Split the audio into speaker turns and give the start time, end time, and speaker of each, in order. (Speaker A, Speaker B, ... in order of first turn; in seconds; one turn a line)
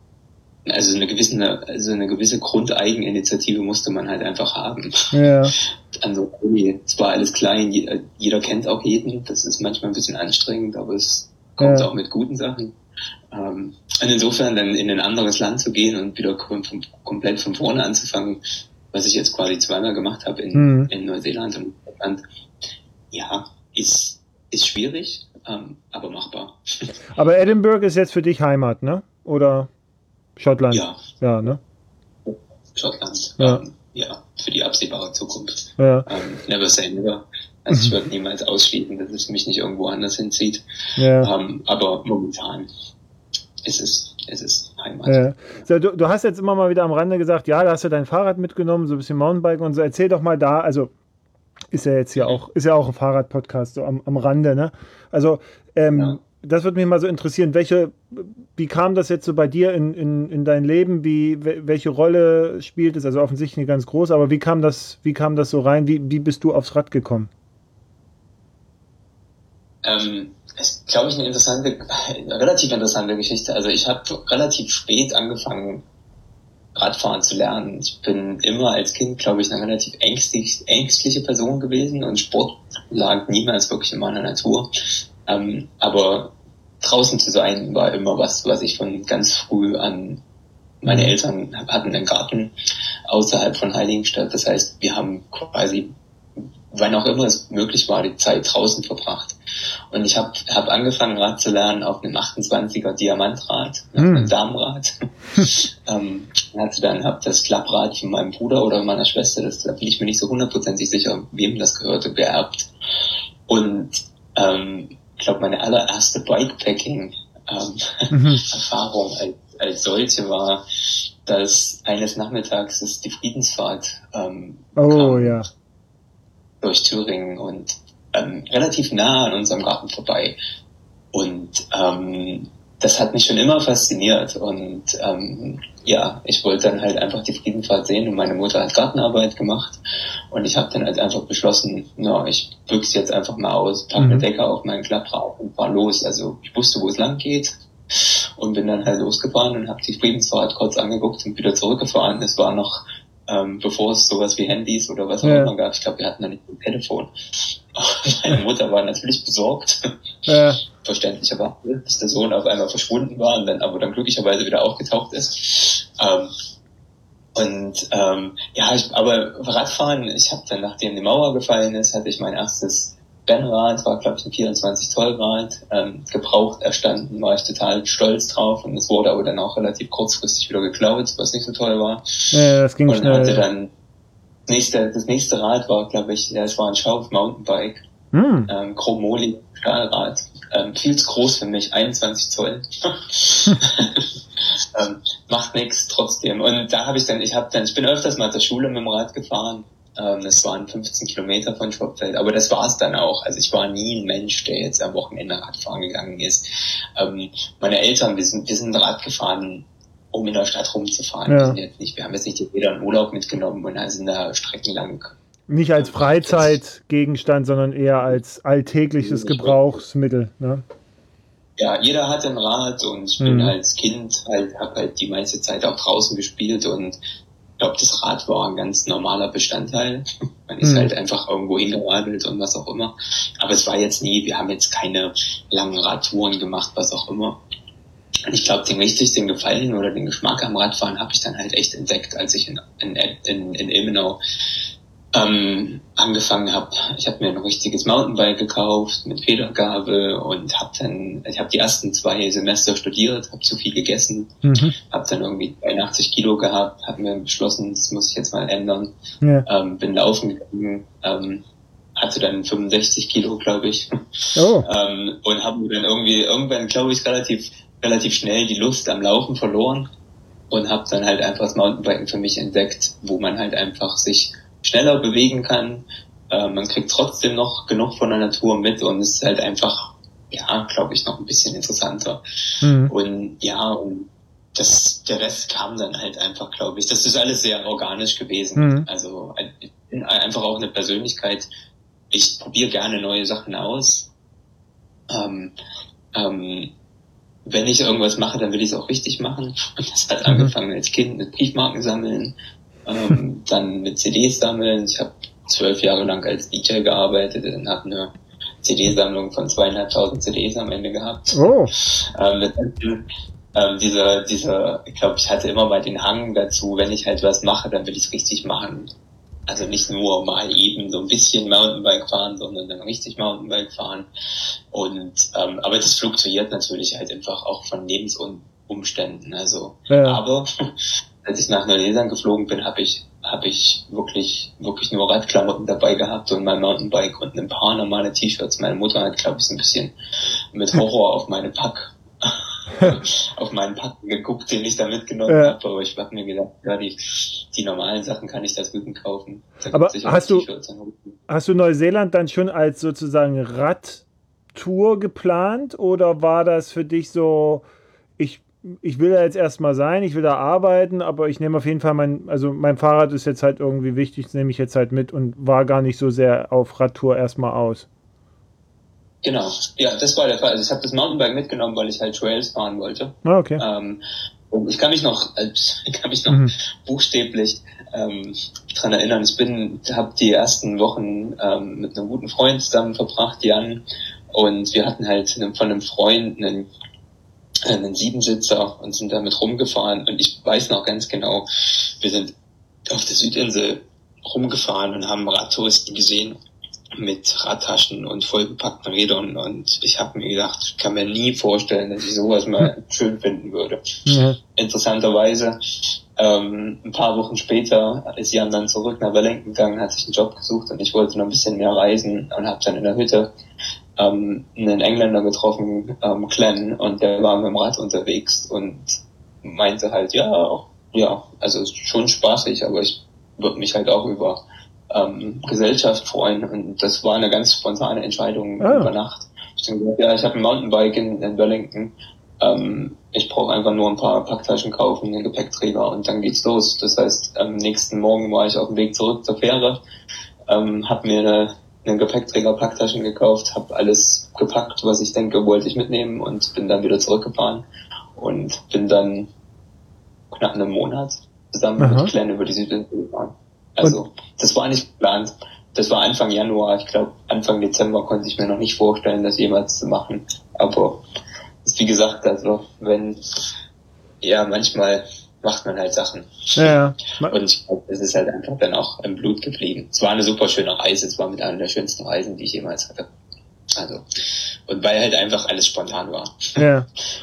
Speaker A: 0.7-4.9
Speaker B: 5.1-5.5
Speaker A: 5.6-12.7
Speaker B: 11.6-11.9
Speaker A: 13.3-18.4
Speaker A: 18.9-22.2
Speaker B: 20.5-20.9
Speaker A: 23.1-26.9
Speaker B: 27.1-29.7
Speaker B: 30.4-31.6
Speaker A: 30.7-31.0
Speaker A: 32.2-40.6
Speaker B: 35.8-36.1
Speaker B: 41.0-41.3
Speaker A: 41.2-42.7
Speaker A: 43.6-45.6
Speaker B: 45.1-50.9
Speaker B: 51.7-67.3
Speaker A: 52.1-52.4
Speaker A: 69.8-75.8
Speaker A: 76.7-84.7
Speaker A: 85.2-90.2
Speaker A: 90.8-92.5
Speaker B: 90.8-91.1
Speaker A: 93.1-99.4
Speaker A: 99.9-112.7
Speaker B: 104.0-104.3
Speaker A: 113.5-120.6
Speaker B: 118.1-118.4
Speaker A: 121.2-125.4
Speaker B: 124.8-125.5
Speaker A: 126.6-130.4
Speaker A: 131.1-139.8
Speaker A: 140.3-159.8
Speaker B: 144.0-144.2
Speaker B: 155.2-155.5
Speaker B: 160.3-160.6
Speaker A: 160.8-166.3
Speaker A: 167.3-182.3
Speaker B: 182.3-183.4
Speaker A: 182.9-183.7
Speaker A: 184.5-187.8
Speaker B: 188.1-188.5
Speaker A: 188.5-206.4
Speaker A: 206.9-215.2
Speaker B: 211.3-211.6
Speaker B: 215.5-220.6
Speaker A: 215.8-216.6
Speaker A: 219.0-219.6
Speaker A: 221.6-227.0
Speaker B: 223.2-223.5
Speaker A: 227.6-237.4
Speaker B: 230.6-230.9
Speaker A: 238.3-244.2
Speaker A: 245.1-254.3
Speaker B: 254.4-254.7
Speaker A: 254.9-258.9
Speaker A: 259.4-261.4
Speaker A: 261.9-263.9
Speaker B: 264.4-264.6
Speaker A: 264.6-269.9
Speaker A: 270.5-282.2
Speaker B: 282.6-282.9
Speaker A: 282.9-291.5
Speaker B: 288.6-288.9
Speaker A: 292.1-294.1
Speaker A: 295.1-295.5
Speaker A: 296.1-296.7
Speaker A: 297.4-302.3
Speaker B: 300.3-300.5
Speaker A: 302.9-308.1
Speaker A: 308.6-313.0
Speaker B: 311.3-311.7
Speaker A: 313.5-318.9
Speaker A: 319.5-324.1
Speaker A: 324.7-330.5
Speaker B: 329.9-330.2
Speaker A: 331.2-339.9
Speaker A: 340.5-351.2
Speaker B: 345.3-345.6
Speaker B: 349.7-350.5
Speaker B: 351.3-357.6
Speaker B: 358.2-367.9
Speaker A: 369.2-374.0
Speaker B: 373.2-373.6
Speaker A: 374.5-386.7
Speaker B: 376.3-376.5
Speaker A: 387.7-392.3
Speaker A: 392.9-396.4
Speaker A: 397.0-403.8
Speaker B: 404.1-404.4
Speaker A: 404.6-405.6
Speaker A: 406.2-413.3
Speaker A: 414.0-439.8
Speaker B: 428.6-428.9
Speaker A: 440.5-447.6
Speaker A: 448.1-449.3
Speaker A: 450.3-461.0
Speaker B: 451.8-452.1
Speaker A: 461.6-463.2
Speaker A: 464.2-473.1
Speaker B: 466.6-467.4
Speaker A: 473.8-474.0
Speaker A: 474.7-476.6
Speaker B: 476.6-476.9